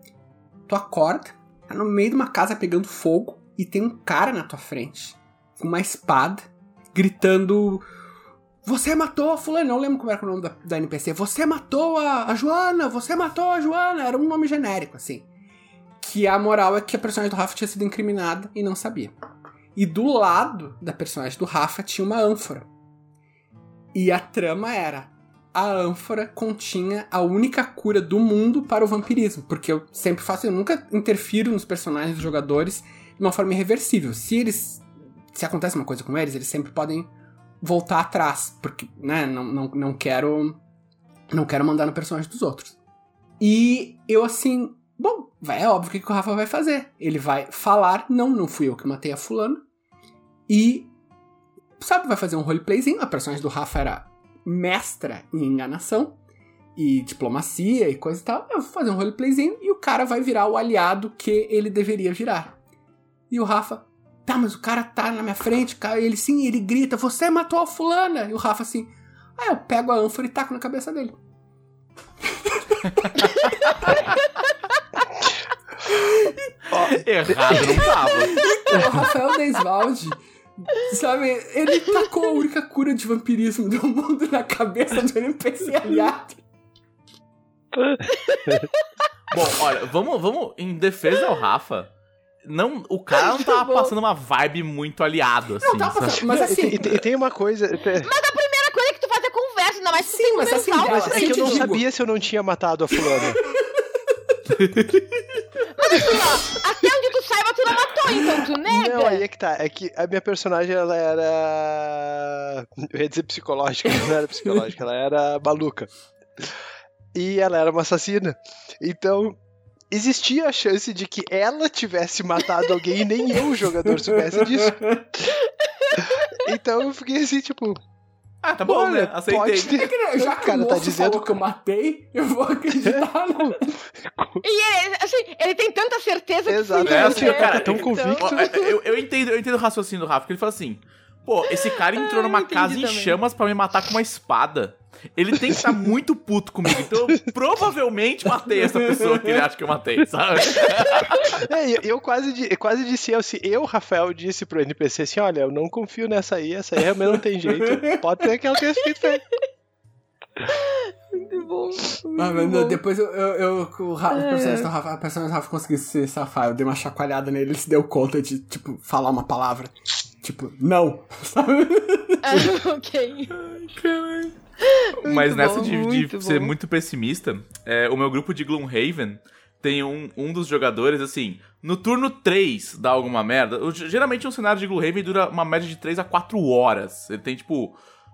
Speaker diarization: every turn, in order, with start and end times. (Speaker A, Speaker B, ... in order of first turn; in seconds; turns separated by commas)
Speaker A: 0.7-7.8, Speaker A: 8.7-15.3, Speaker A: 16.0-19.1, Speaker A: 19.8-22.7, Speaker A: 23.9-40.6, Speaker A: 41.3-42.8, Speaker A: 43.4-49.6, Speaker A: 50.5-50.9, Speaker A: 51.8-56.2, Speaker A: 56.8-62.6, Speaker A: 63.3-71.2, Speaker A: 72.2-74.0, Speaker B: 73.9-74.3, Speaker C: 76.7-77.8, Speaker D: 76.7-78.4, Speaker A: 77.5-86.4, Speaker B: 78.3-78.7, Speaker C: 87.7-88.7, Speaker B: 88.1-88.9, Speaker D: 89.3-91.9, Speaker D: 92.4-96.2, Speaker B: 93.1-93.9, Speaker A: 95.6-97.0, Speaker C: 96.3-98.1, Speaker B: 98.0-101.7, Speaker A: 100.0-101.8, Speaker C: 100.8-103.4, Speaker D: 104.5-105.2, Speaker B: 105.8-109.2, Speaker C: 108.6-116.5, Speaker C: 117.1-119.4, Speaker C: 119.9-125.3, Speaker A: 124.0-125.0, Speaker B: 125.4-126.5, Speaker C: 126.0-127.8, Speaker D: 128.4-129.8, Speaker C: 128.7-131.4, Speaker A: 129.7-133.7, Speaker C: 132.9-134.4, Speaker B: 134.4-138.9, Speaker C: 136.5-138.5, Speaker D: 136.8-151.3, Speaker B: 141.5-143.2, Speaker C: 145.5-145.8, Speaker A: 148.8-149.4, Speaker B: 150.9-151.4, Speaker C: 151.2-159.2, Speaker A: 157.5-158.0, Speaker B: 159.1-159.4, Speaker B: 160.5-162.8, Speaker A: 162.2-172.5, Speaker B: 164.1-164.7, Speaker B: 172.2-173.3, Speaker D: 173.4-174.3, Speaker B: 174.6-176.5, Speaker D: 175.1-187.8